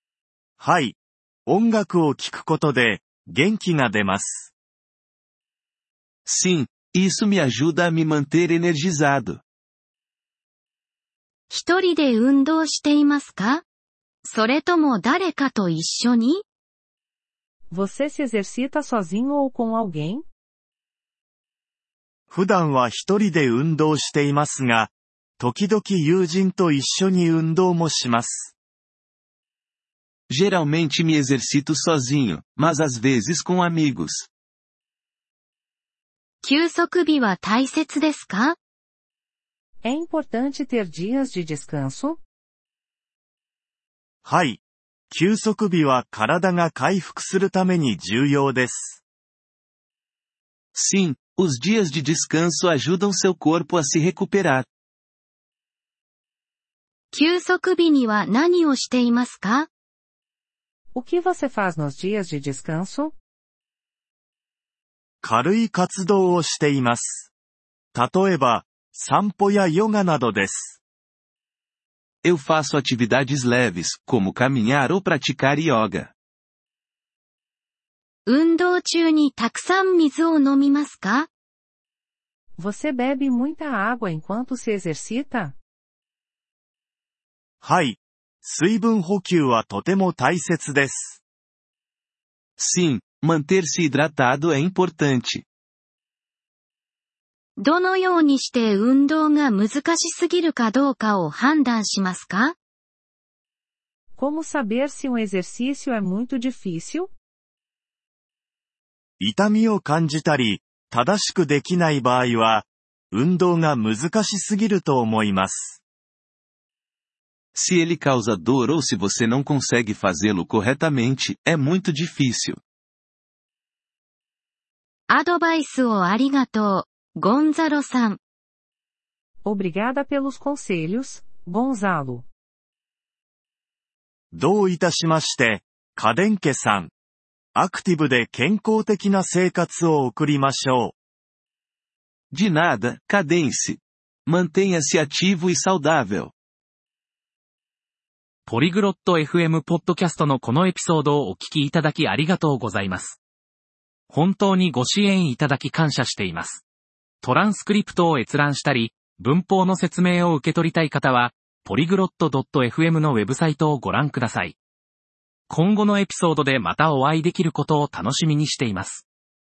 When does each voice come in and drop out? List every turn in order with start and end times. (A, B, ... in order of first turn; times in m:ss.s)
0:00.6-0:04.5 A
0:06.2-0:09.4 B
0:11.5-0:13.6 C
0:14.2-0:16.4 C
0:17.7-0:20.2 D
0:22.3-0:28.5 A
0:30.3-0:34.3 B
0:36.4-0:38.6 C
0:39.8-0:42.2 D
0:44.2-0:49.0 A
0:50.8-0:54.7 B
0:57.1-0:59.7 C
1:00.9-1:03.1 D
1:05.2-1:07.3 A
1:07.9-1:10.8 A
1:12.2-1:16.1 B
1:18.3-1:21.3 C
1:22.6-1:25.6 D
1:27.6-1:31.2 A
1:32.6-1:35.4 B
1:37.6-1:42.5 C
1:44.2-1:47.1 D
1:49.2-1:55.8 A
1:57.5-2:02.6 B
2:05.1-2:08.2 C
2:09.4-2:12.2 D
2:14.3-2:16.9 A
2:17.5-2:21.0 A
2:22.3-2:26.3 B
2:28.5-2:33.2 E
2:34.1-2:36.6 E
2:37.2-2:44.5 E
2:45.5-2:49.0 E